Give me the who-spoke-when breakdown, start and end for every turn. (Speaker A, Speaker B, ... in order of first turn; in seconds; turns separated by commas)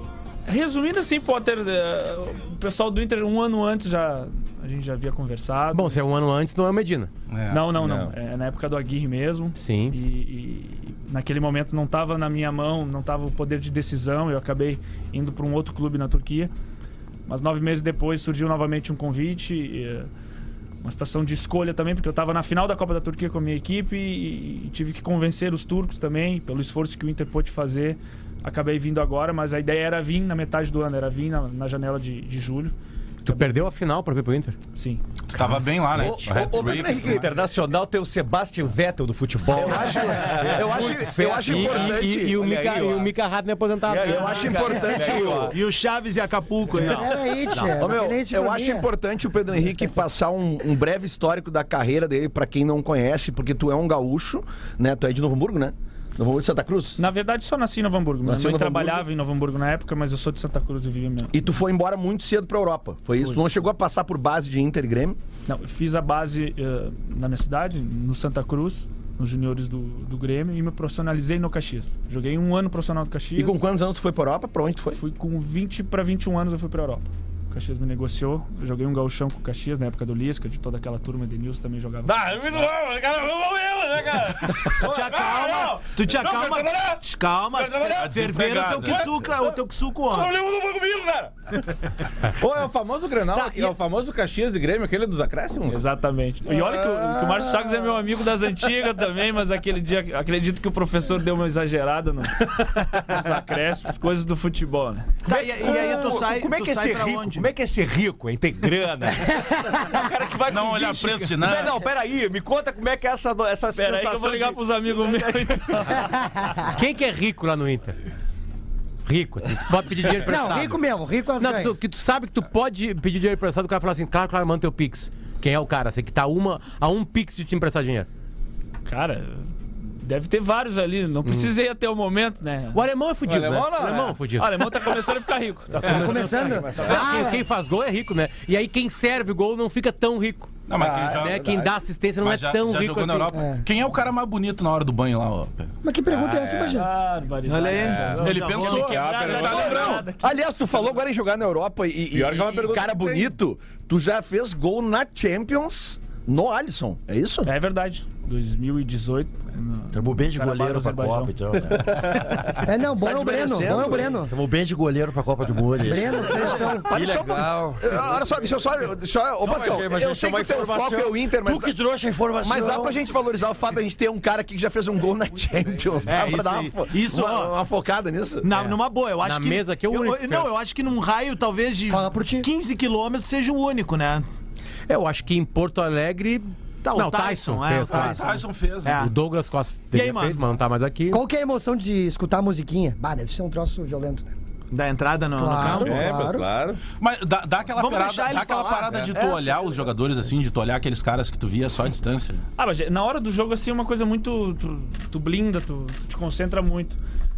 Speaker A: 0.5-6.0, Speaker B: 5.7-7.1, Speaker C: 7.3-7.8, Speaker A: 7.5-16.5, Speaker D: 7.8-8.1, Speaker B: 9.6-10.0, Speaker A: 17.3-20.1, Speaker A: 20.8-32.7, Speaker B: 33.2-34.5, Speaker A: 33.2-33.6, Speaker A: 34.7-35.0, Speaker C: 35.3-36.9, Speaker D: 35.9-37.2, Speaker E: 35.9-37.2, Speaker F: 36.6-43.1, Speaker E: 39.5-42.4, Speaker B: 41.4-44.4, Speaker F: 43.9-45.5, Speaker E: 44.0-45.5, Speaker G: 44.2-47.8, Speaker H: 46.7-48.9, Speaker E: 47.6-57.0, Speaker A: 57.0-61.3, Speaker E: 58.2-59.0, Speaker E: 61.3-65.2, Speaker A: 65.5-73.6, Speaker E: 73.3-75.0, Speaker A: 74.9-82.7, Speaker D: 82.0-87.0, Speaker G: 84.7-90.3, Speaker D: 87.5-88.0, Speaker C: 88.0-89.1, Speaker D: 88.9-89.4, Speaker D: 90.1-95.8, Speaker A: 95.7-105.2, Speaker D: 96.5-97.8, Speaker G: 105.2-107.5, Speaker F: 105.3-116.0, Speaker C: 110.5-111.8, Speaker G: 110.8-111.4, Speaker A: 113.7-116.2, Speaker B: 116.7-118.0, Speaker B: 119.0-120.8, Speaker H: 120.2-121.7, Speaker B: 121.4-128.1, Speaker A: 128.8-132.8, Speaker B: 131.2-131.5, Speaker B: 132.7-134.7, Speaker D: 133.2-134.2, Speaker A: 134.4-137.2, Speaker B: 135.8-143.3, Speaker H: 135.8-137.4, Speaker C: 140.7-141.6, Speaker E: 140.7-141.7, Speaker C: 142.2-145.7, Speaker H: 143.3-143.6, Speaker H: 145.8-146.9, Speaker D: 146.1-146.8, Speaker A: 146.7-150.5, Speaker G: 147.4-149.7, Speaker D: 147.8-150.1, Speaker C: 148.2-150.0, Speaker E: 150.0-157.5, Speaker D: 152.1-153.3, Speaker A: 157.4-161.3, Speaker F: 159.9-162.5, Speaker D: 161.7-162.4, Speaker H: 162.6-164.3, Speaker E: 163.0-164.2, Speaker F: 163.7-168.5, Speaker H: 165.8-166.9, Speaker E: 166.1-171.8, Speaker F: 169.4-173.0, Speaker E: 172.4-178.5, Speaker G: 176.1-177.5, Speaker G: 178.4-184.3, Speaker B: 178.5-180.5, Speaker H: 181.9-182.5, Speaker B: 184.9-188.2, Speaker G: 186.8-189.1, Speaker C: 187.9-189.0, Speaker B: 188.8-191.2, Speaker G: 189.9-190.5, Speaker H: 191.1-194.3, Speaker G: 194.7-196.0, Speaker H: 195.3-196.5, Speaker D: 195.6-196.8, Speaker C: 196.9-202.4, Speaker G: 197.7-199.7, Speaker A: 202.6-207.0